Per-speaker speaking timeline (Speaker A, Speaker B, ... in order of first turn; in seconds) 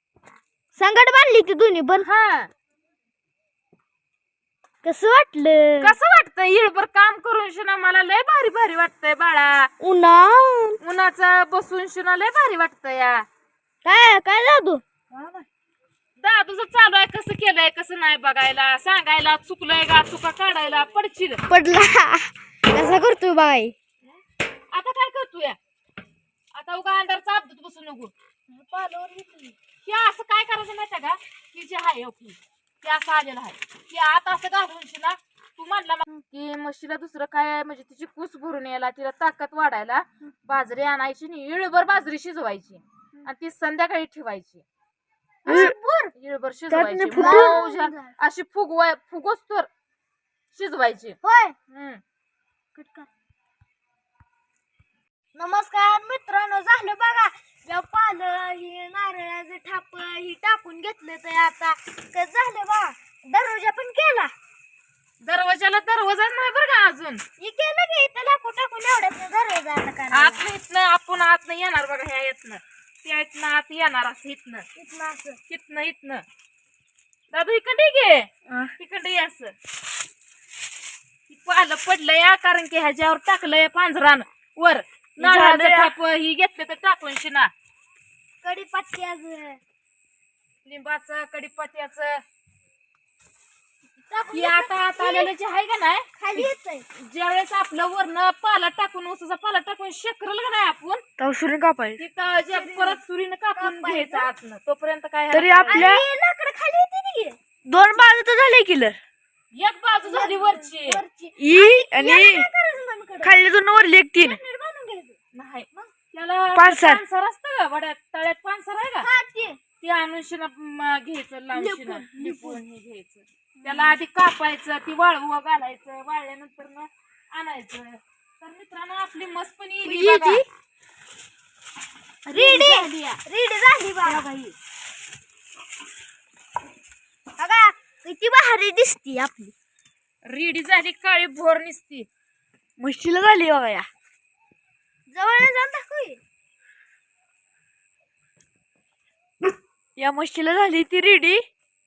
Speaker A: 0.8-2.1, 4.8-5.9, 9.8-10.8, 13.8-14.8, 21.5-23.7, 28.5-29.6, 47.1-48.1, 51.2-51.5, 52.7-53.1, 55.3-64.3, 67.4-70.4, 74.7-75.4, 88.4-89.6, 94.0-95.3, 96.2-96.8, 102.5-103.0, 103.5-104.3, 105.7-108.1, 110.0-113.4, 114.2-115.2, 119.0-119.6, 121.5-122.6, 123.5-124.0, 130.0-130.4, 132.3-134.2, 137.4-139.5, 145.1-146.2
Speaker B: 2.0-2.5, 5.8-9.7, 10.8-13.2, 15.1-15.4, 16.2-21.4, 24.7-25.6, 26.5-28.1, 29.8-44.6, 45.4-49.7, 50.5-51.1, 51.7-52.0, 65.2-67.2, 70.1-74.6, 75.5-76.2, 77.3-79.5, 81.3-87.5, 90.6-92.2, 94.3-101.0, 102.0-105.9, 109.5-111.0, 115.3-119.1, 119.8-130.4, 132.3-133.2, 140.2-142.1
Speaker C: 45.5-45.7, 46.7-47.5, 85.2-85.9, 101.2-102.0, 105.3-106.0, 107.7-109.0, 111.4-112.5, 113.2-114.4, 116.5-117.0, 129.9-130.2, 134.1-134.5, 142.8-143.9, 150.0-151.4